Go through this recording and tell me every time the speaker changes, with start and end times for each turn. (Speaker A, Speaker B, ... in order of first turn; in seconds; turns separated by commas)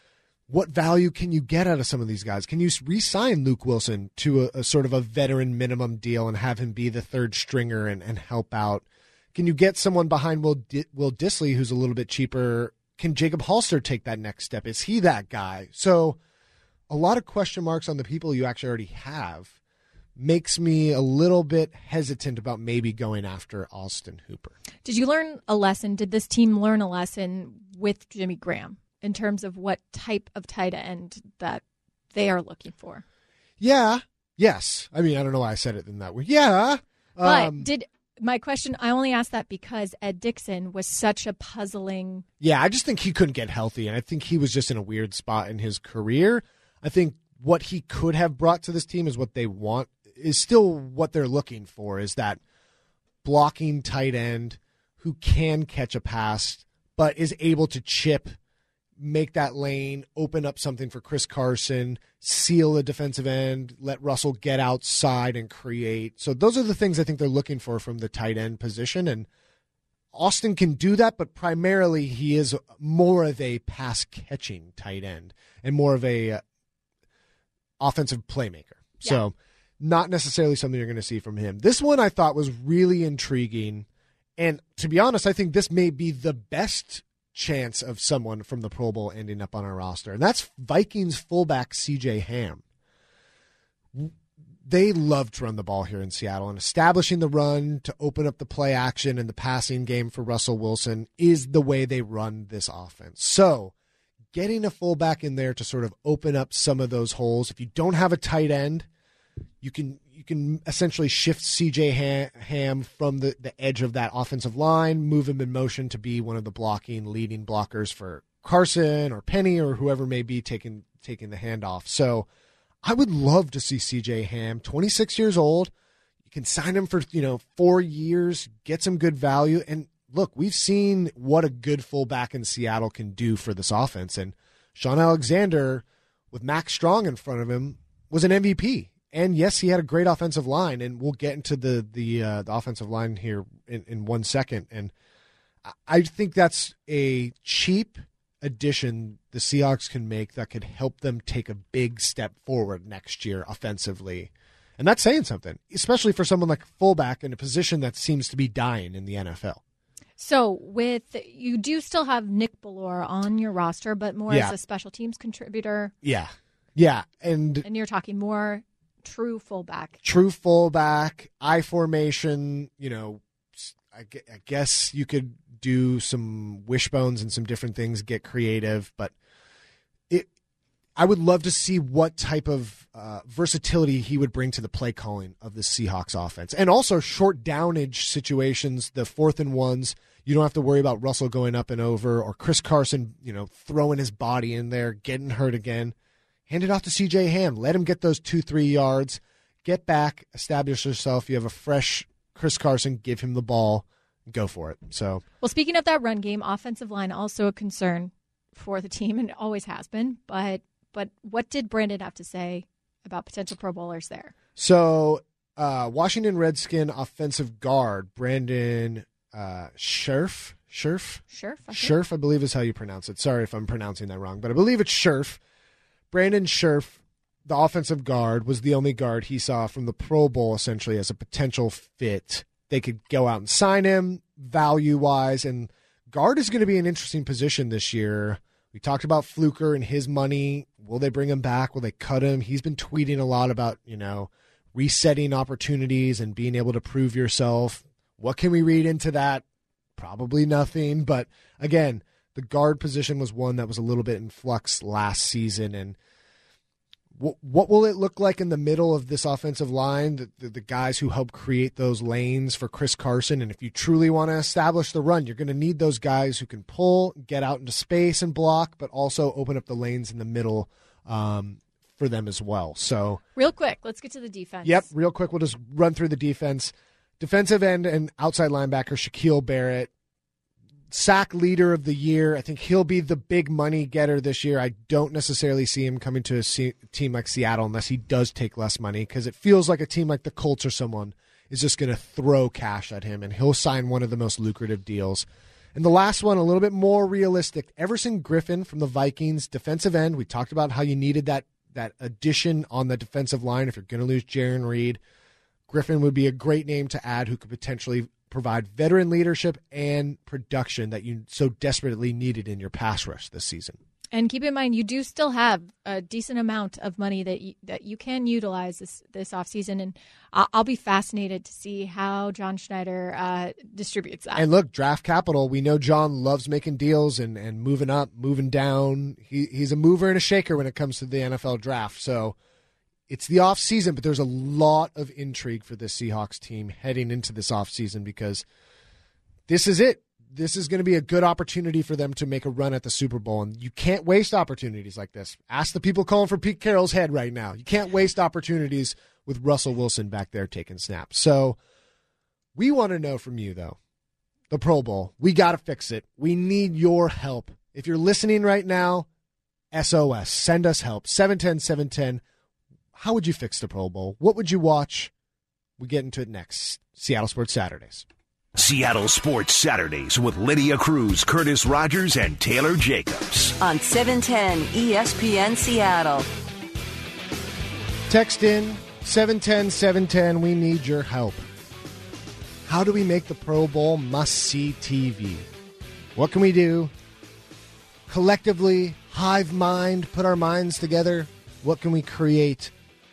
Speaker A: 0.5-16.2, Speaker A: 16.9-19.5, Speaker A: 20.1-24.6, Speaker B: 24.9-31.6, Speaker B: 32.1-33.0, Speaker A: 33.6-37.7, Speaker B: 37.2-42.2, Speaker A: 42.4-52.4, Speaker A: 53.2-58.4, Speaker A: 59.0-69.3, Speaker A: 70.1-76.4, Speaker A: 77.8-83.9, Speaker A: 84.4-92.6, Speaker A: 93.9-103.7, Speaker A: 104.3-108.9, Speaker A: 109.6-122.3, Speaker A: 122.8-125.7, Speaker A: 126.3-144.9, Speaker A: 145.7-159.6, Speaker B: 160.2-165.9, Speaker A: 164.3-164.5, Speaker A: 166.0-167.7, Speaker B: 167.6-170.0, Speaker A: 170.0-179.1, Speaker A: 181.0-195.9, Speaker A: 196.5-205.2, Speaker B: 205.4-214.3, Speaker A: 214.6-225.4, Speaker B: 221.3-221.9, Speaker A: 226.1-249.4, Speaker A: 250.0-256.0, Speaker A: 257.2-273.2, Speaker B: 273.4-274.9, Speaker A: 274.6-279.9, Speaker A: 280.9-305.0, Speaker A: 305.7-313.8, Speaker B: 314.1-324.4, Speaker A: 324.4-332.4, Speaker A: 333.1-338.4, Speaker A: 339.5-351.6, Speaker A: 352.6-353.8, Speaker A: 354.5-359.1, Speaker A: 359.7-362.2, Speaker A: 362.9-365.1, Speaker A: 365.8-368.1, Speaker C: 368.6-373.6, Speaker D: 373.6-376.3, Speaker A: 378.1-381.4, Speaker A: 382.7-385.5, Speaker A: 386.1-386.9, Speaker A: 388.1-392.7